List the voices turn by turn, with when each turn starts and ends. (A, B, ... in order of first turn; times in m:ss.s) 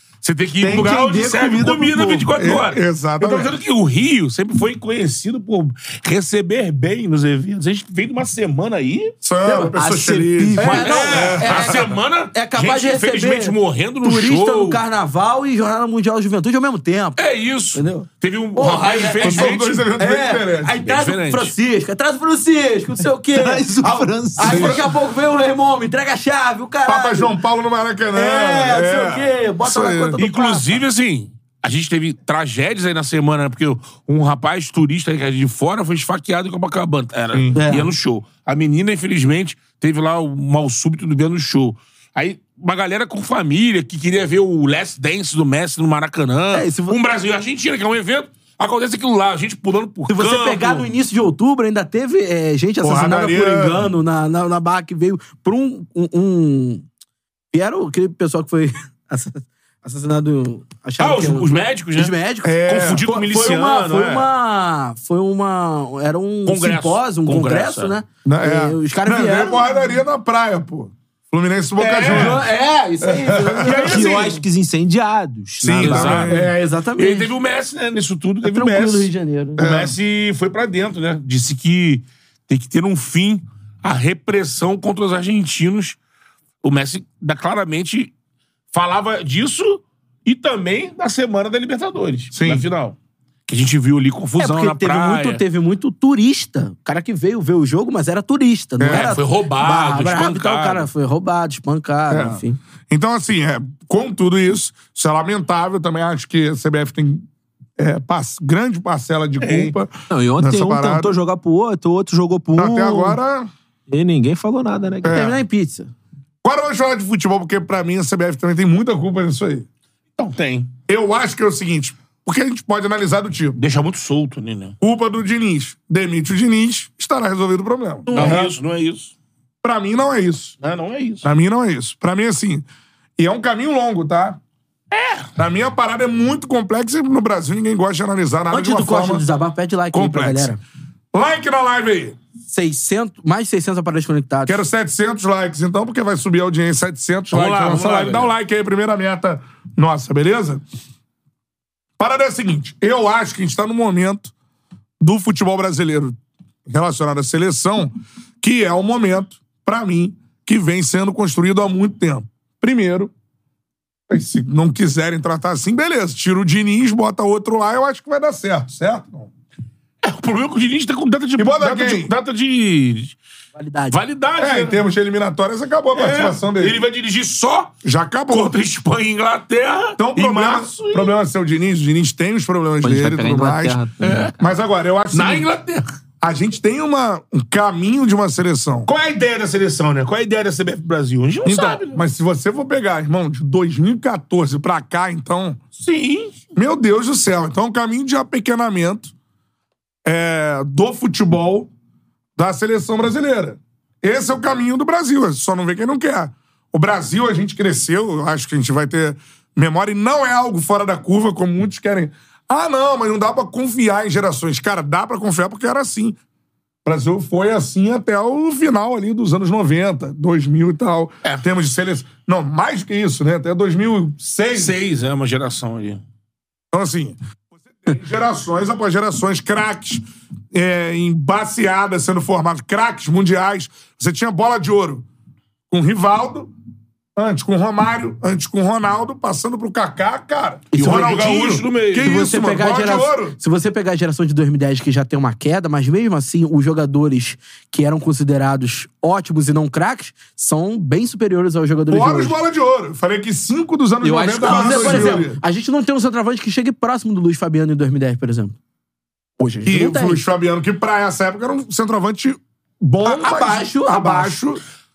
0:00.2-0:09.1 A
0:00.6-0:02.3 B
0:02.3-0:03.6 C
0:09.2-0:11.8 C
0:09.4-0:17.2 D
0:10.6-0:14.8 A
0:17.2-0:19.8 A
0:17.7-0:27.3 D
0:19.2-0:20.8 C
0:20.8-0:21.5 A
0:23.3-0:24.9 B
0:24.4-0:24.8 C
0:26.8-0:30.2 C
0:28.1-0:30.7 D
0:30.2-0:50.9 A
0:37.3-0:37.6 C
0:37.5-0:37.9 D
0:46.5-0:47.0 D
0:50.1-0:56.8 D
0:52.8-0:53.9 C
0:57.5-1:09.7 D
1:01.0-1:02.1 A
1:02.4-1:03.0 C
1:02.6-1:04.3 A
1:06.4-1:07.9 A
1:08.2-1:12.4 C
1:11.8-1:12.4 A
1:12.0-1:14.1 D
1:13.0-1:13.8 C
1:13.6-1:14.4 A
1:13.7-1:16.3 B
1:15.6-1:16.5 C
1:15.8-1:16.4 A
1:16.2-1:17.3 D
1:17.0-1:26.0 A
1:18.4-1:19.6 D
1:19.6-1:20.0 C
1:26.6-1:28.1 A
1:28.7-1:33.0 A
1:32.3-1:32.6 C
1:33.5-1:35.4 A
1:34.4-1:42.6 D
1:38.8-1:39.1 C
1:38.9-1:40.9 A
1:42.1-1:47.2 C
1:47.8-1:51.2 C
1:49.4-1:49.7 A
1:50.1-1:53.2 B
1:52.6-1:53.5 C
1:53.9-1:55.3 B
1:55.0-1:55.4 C
1:55.1-1:55.9 D
1:56.4-1:59.6 C
2:00.2-2:00.7 A
2:00.9-2:03.6 C
2:03.6-2:04.8 A
2:04.8-2:08.5 C
2:08.1-2:08.4 D
2:08.1-2:09.1 A
2:09.6-2:10.6 C
2:10.6-2:11.2 A
2:11.2-2:12.6 C
2:13.2-2:14.4 C
2:14.9-2:15.3 A
2:15.4-2:19.2 C
2:18.5-2:20.6 D
2:19.9-2:20.5 C
2:21.1-2:22.2 C
2:22.5-2:24.6 D
2:24.4-2:30.6 C
2:27.3-2:28.3 A
2:32.0-2:34.3 C
2:35.0-2:36.2 C
2:36.7-2:43.1 C
2:44.1-2:49.3 C
2:50.0-2:53.2 A
2:51.4-2:52.1 C
2:53.5-2:54.0 D
2:53.9-2:54.8 A
2:54.4-2:56.8 C
2:55.9-2:57.7 A
2:57.8-2:58.6 C
2:58.3-3:01.2 A
3:00.0-3:03.8 C
3:02.8-3:04.3 B
3:04.0-3:04.3 A
3:04.4-3:05.5 C
3:05.1-3:05.9 A
3:06.2-3:08.9 C
3:08.9-3:12.0 A
3:11.4-3:15.6 C
3:15.8-3:16.4 A
3:16.5-3:19.1 C
3:20.0-3:21.7 C
3:22.4-3:36.2 C
3:36.8-3:44.7 C
3:44.5-3:46.0 A
3:46.7-3:55.0 C
3:55.7-3:56.5 C
3:57.2-4:03.4 C
4:00.7-4:01.2 D
4:00.7-4:02.1 A
4:02.0-4:12.4 D
4:11.9-4:15.4 C
4:14.0-4:15.2 B
4:14.4-4:18.6 D
4:19.4-4:20.2 D
4:19.6-4:24.6 C
4:23.0-4:24.4 D